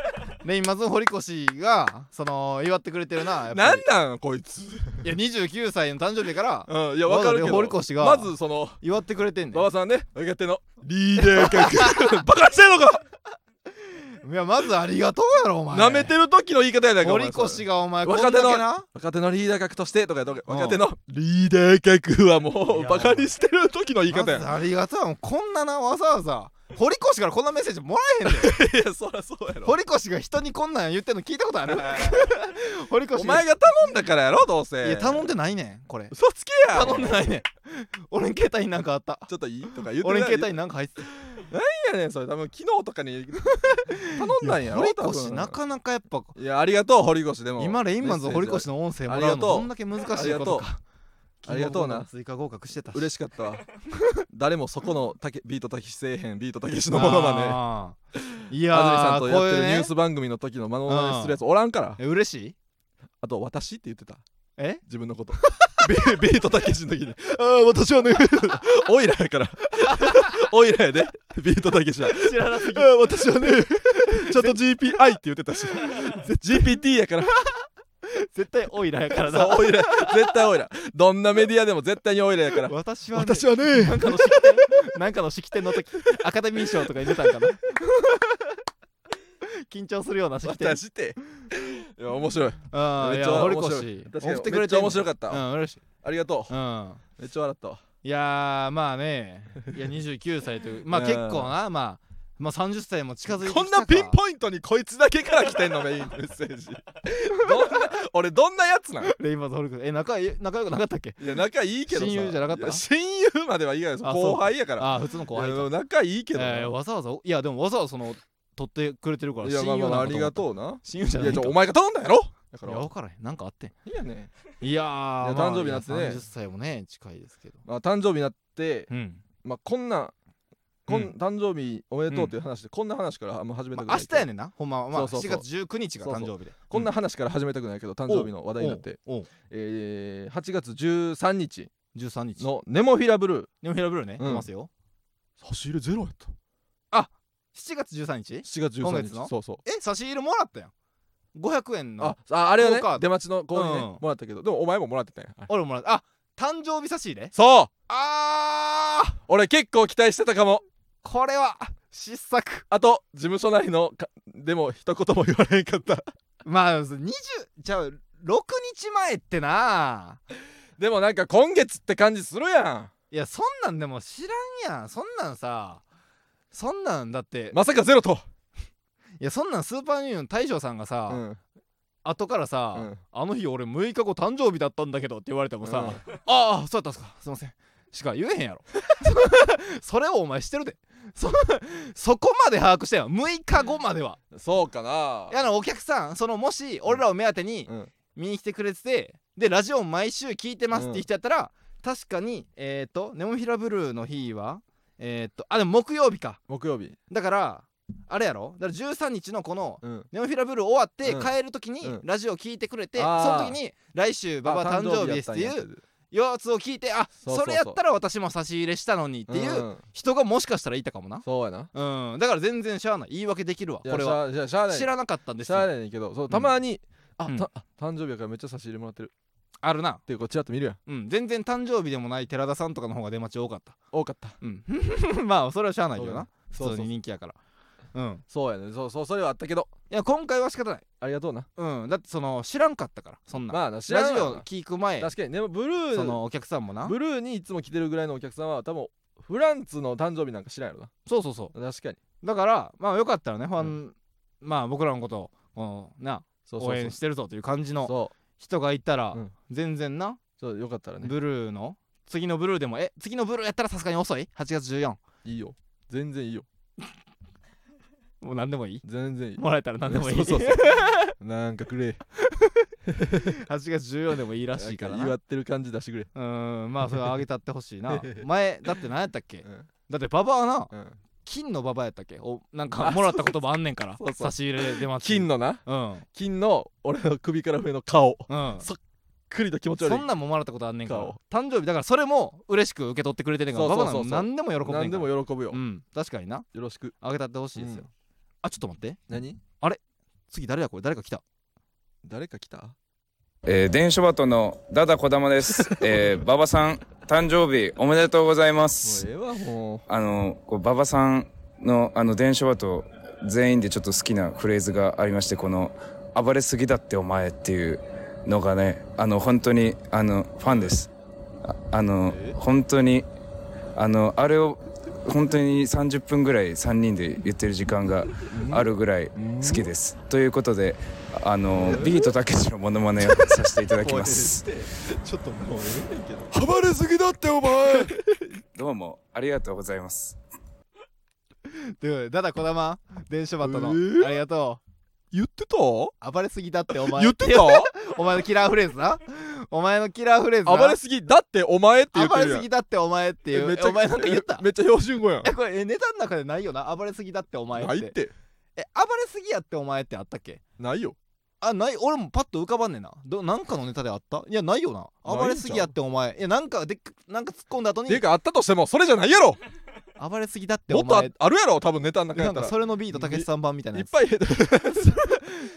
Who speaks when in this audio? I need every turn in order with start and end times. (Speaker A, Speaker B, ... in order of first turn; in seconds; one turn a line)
Speaker A: 0.4-3.9
Speaker B: 3.5-5.1
Speaker A: 5.0-9.7
Speaker B: 6.7-8.8
Speaker B: 9.5-13.0
Speaker A: 11.3-12.1
Speaker A: 14.2-16.1
Speaker B: 15.7-24.5
Speaker A: 17.0-18.9
Speaker A: 20.5-20.8
Speaker A: 22.7-23.3
Speaker A: 24.1-28.6
Speaker B: 28.2-29.8
Speaker A: 29.6-33.5
Speaker B: 31.7-32.3
Speaker B: 33.1-35.3
Speaker A: 34.8-36.1
Speaker B: 36.1-37.3
Speaker A: 36.7-41.1
Speaker B: 39.3-40.6
Speaker B: 41.2-45.6
Speaker A: 44.0-46.4
Speaker B: 46.4-50.7
Speaker A: 47.6-50.8
Speaker A: 51.4-53.1
Speaker B: 51.5-52.1
Speaker B: 52.9-53.6
Speaker B: 54.3-57.6
Speaker A: 56.9-58.0
Speaker B: 58.2-62.0
Speaker A: 58.5-59.9
Speaker A: 60.9-61.4
Speaker A: 62.0-62.5
Speaker B: 63.2-64.2
Speaker A: 64.6-64.8
Speaker B: 64.9-77.3
Speaker A: 65.5-65.9
Speaker A: 68.1-68.4
Speaker A: 69.9-70.2
Speaker A: 72.1-74.6
Speaker A: 78.1-80.4
Speaker B: 79.2-84.7
Speaker A: 82.7-88.4
Speaker B: 86.7-87.3
Speaker A: 89.7-90.8
Speaker B: 90.4-95.5
Speaker A: 92.7-95.8
Speaker B: 96.0-96.5
Speaker A: 96.5-97.0
Speaker B: 97.2-97.8
Speaker A: 98.0-104.2
Speaker B: 100.9-101.5
Speaker B: 103.3-109.2
Speaker A: 109.0-111.2
Speaker B: 111.2-116.7
Speaker A: 111.9-112.8
Speaker A: 114.0-115.7
Speaker A: 116.3-121.6
Speaker B: 119.4-122.9
Speaker A: 122.7-123.7
Speaker B: 123.8-124.3
Speaker A: 124.6-127.6
Speaker B: 125.2-126.2
Speaker B: 127.7-128.9
Speaker A: 128.9-129.2
Speaker B: 129.4-130.1
Speaker B: 130.9-134.3
Speaker A: 133.7-136.9
Speaker B: 134.9-135.5
Speaker B: 136.0-141.7
Speaker A: 138.1-139.3
Speaker A: 141.9-142.5
Speaker B: 142.4-143.5
Speaker A: 143.6-144.7
Speaker B: 144.2-144.5
Speaker B: 145.4-146.3
Speaker A: 146.9-150.7
Speaker B: 148.4-149.6
Speaker A: 151.3-154.0
Speaker B: 152.0-155.5
Speaker A: 155.5-157.3
Speaker B: 157.3-157.7
Speaker A: 157.9-159.2
Speaker B: 159.3-160.7
Speaker A: 161.0-162.7
Speaker B: 162.7-166.1
Speaker A: 166.4-170.2
Speaker B: 170.8-172.9
Speaker A: 173.1-175.8
Speaker A: 176.5-177.6
Speaker B: 177.5-178.2
Speaker A: 179.2-181.2
Speaker B: 181.1-181.4
Speaker A: 182.0-194.2
Speaker B: 182.7-183.0
Speaker B: 185.6-186.0
Speaker B: 194.3-195.4
Speaker A: 195.3-206.4
Speaker B: 197.7-197.9
Speaker B: 200.7-201.1
Speaker B: 206.5-207.0
Speaker A: 207.1-225.7
Speaker B: 209.8-210.1
Speaker B: 211.0-212.0
Speaker B: 212.9-213.6
Speaker B: 214.4-215.8
Speaker B: 217.2-217.8
Speaker B: 219.3-219.8
Speaker B: 221.2-221.7
Speaker B: 223.8-224.9
Speaker B: 225.4-229.1
Speaker A: 229.6-230.0
Speaker B: 230.1-230.8
Speaker A: 230.9-233.8
Speaker B: 233.9-234.4
Speaker A: 234.4-237.4
Speaker B: 236.0-236.9
Speaker A: 237.9-238.2
Speaker B: 238.3-239.7
Speaker A: 239.9-240.8
Speaker B: 241.0-241.5
Speaker A: 241.6-245.1
Speaker B: 243.5-244.5
Speaker B: 245.0-246.2
Speaker A: 245.9-247.0
Speaker B: 246.8-250.9
Speaker A: 251.1-251.5
Speaker B: 251.5-252.0
Speaker A: 252.2-260.2
Speaker B: 256.5-257.0
Speaker B: 257.8-258.1
Speaker B: 260.4-261.1
Speaker A: 261.0-265.0
Speaker B: 265.2-266.5
Speaker A: 268.2-268.8
Speaker B: 268.8-272.0
Speaker A: 269.4-271.1
Speaker B: 272.9-273.4
Speaker A: 273.3-275.2
Speaker B: 274.6-276.1
Speaker A: 276.1-280.7
Speaker B: 277.9-278.2
Speaker B: 279.4-279.7
Speaker B: 280.7-281.0
Speaker A: 281.2-286.1
Speaker B: 282.8-283.4
Speaker B: 284.0-285.6
Speaker B: 286.1-288.8
Speaker A: 288.3-288.7
Speaker B: 289.3-290.1
Speaker A: 289.8-296.5
Speaker B: 290.9-291.2
Speaker B: 293.5-295.6
Speaker B: 296.5-297.0
Speaker A: 297.0-297.9
Speaker B: 297.6-297.9
Speaker A: 298.4-299.0
Speaker B: 299.1-299.4
Speaker A: 300.3-301.2
Speaker B: 302.0-302.8
Speaker C: 303.5-309.1
Speaker B: 305.4-306.2
Speaker B: 308.8-309.9
Speaker C: 309.9-320.9
Speaker C: 321.4-323.1
Speaker B: 322.1-322.4
Speaker C: 323.8-334.4
Speaker B: 328.3-329.7
Speaker B: 331.6-332.1
Speaker B: 333.0-338.3
Speaker C: 338.6-340.2
Speaker A: 341.8-344.6
Speaker B: 343.4-344.2
Speaker B: 345.1-345.9
Speaker A: 346.0-350.8
Speaker B: 346.7-347.7
Speaker B: 350.4-352.5
Speaker A: 351.9-354.5
Speaker B: 353.3-355.3
Speaker A: 355.2-357.9
Speaker B: 357.6-358.1
Speaker A: 358.6-360.4
Speaker B: 360.6-361.0
Speaker A: 361.4-368.1
Speaker B: 365.1-365.7
Speaker B: 367.9-369.4
Speaker A: 370.0-371.1
Speaker B: 370.7-375.1
Speaker A: 372.1-374.0
Speaker A: 374.8-375.4